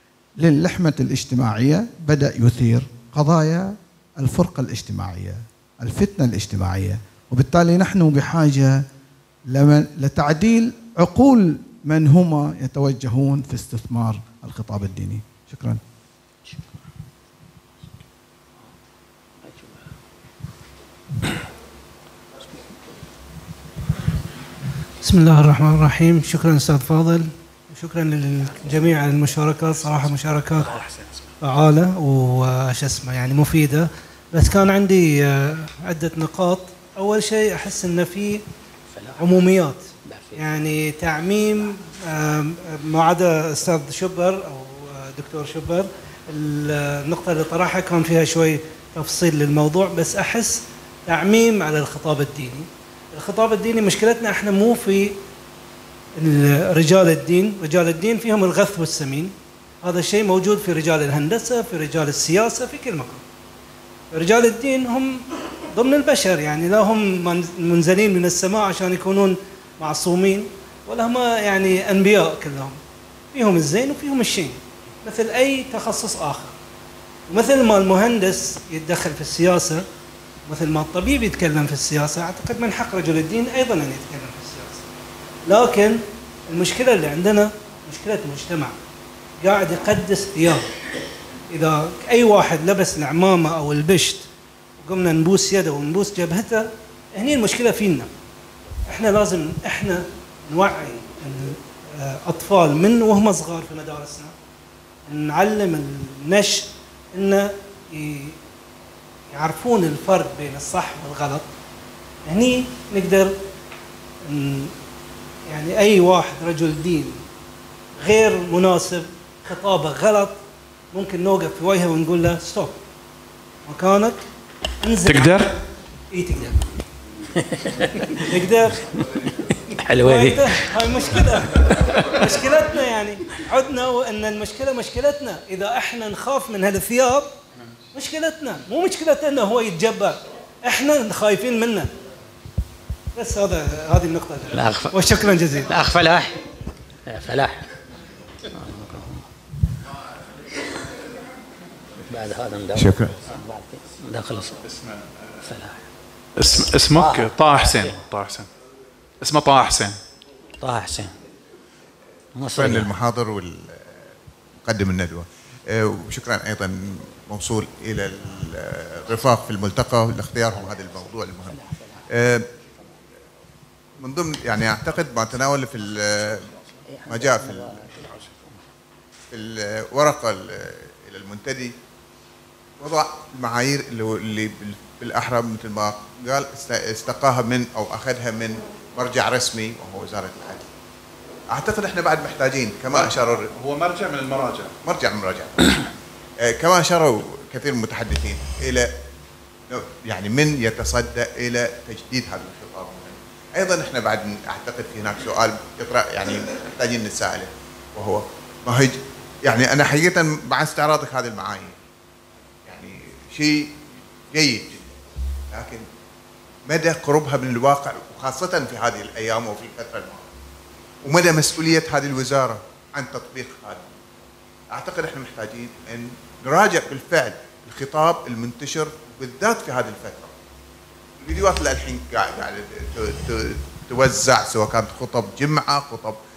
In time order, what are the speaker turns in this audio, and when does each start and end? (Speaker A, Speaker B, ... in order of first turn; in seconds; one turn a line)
Speaker A: 0.4-8.8
Speaker A: 9.5-15.8
Speaker B: 19.4-19.9
Speaker C: 25.0-30.7
Speaker B: 30.6-31.0
Speaker C: 31.4-38.4
Speaker B: 38.9-39.4
Speaker C: 39.2-55.1
Speaker B: 40.0-40.5
Speaker C: 56.2-63.2
Speaker C: 64.1-72.8
Speaker C: 73.3-76.5
Speaker C: 77.3-79.8
Speaker C: 80.5-84.8
Speaker C: 85.5-88.8
Speaker C: 89.4-90.7
Speaker C: 91.5-94.3
Speaker C: 94.8-98.1
Speaker C: 98.9-104.3
Speaker C: 105.1-108.3
Speaker C: 109.3-111.5
Speaker C: 112.2-113.3
Speaker C: 114.2-114.7
Speaker C: 115.5-117.2
Speaker C: 118.0-120.4
Speaker C: 120.9-122.8
Speaker C: 123.7-124.2
Speaker C: 124.8-125.6
Speaker D: 125.0-125.5
Speaker C: 126.1-126.6
Speaker B: 127.3-128.2
Speaker C: 128.2-128.8
Speaker B: 129.5-130.6
Speaker C: 130.0-137.3
Speaker B: 131.5-132.2
Speaker C: 137.9-141.9
Speaker C: 143.1-145.7
Speaker B: 144.5-145.0
Speaker B: 145.6-146.4
Speaker B: 147.1-147.7
Speaker B: 148.5-149.2
Speaker B: 152.1-154.7
Speaker E: 152.8-153.1
Speaker D: 154.7-155.2
Speaker B: 155.4-155.8
Speaker D: 156.4-158.5
Speaker B: 156.9-158.0
Speaker D: 159.2-160.0
Speaker B: 160.6-161.1
Speaker B: 162.4-162.9
Speaker E: 162.5-164.0
Speaker E: 164.6-171.6
Speaker B: 171.6-172.0
Speaker E: 172.1-172.4
Speaker E: 174.0-176.5
Speaker B: 176.9-178.1
Speaker E: 177.1-177.9
Speaker E: 179.3-181.7
Speaker E: 182.8-190.7
Speaker E: 191.5-193.5
Speaker D: 192.9-194.7
Speaker E: 194.8-195.8
Speaker E: 196.4-198.9
Speaker E: 199.7-211.7
Speaker E: 212.7-213.7
Speaker E: 214.3-215.0
Speaker E: 215.5-215.8
Speaker E: 216.7-220.3
Speaker E: 221.0-223.8
Speaker E: 224.7-230.3
Speaker E: 231.2-236.2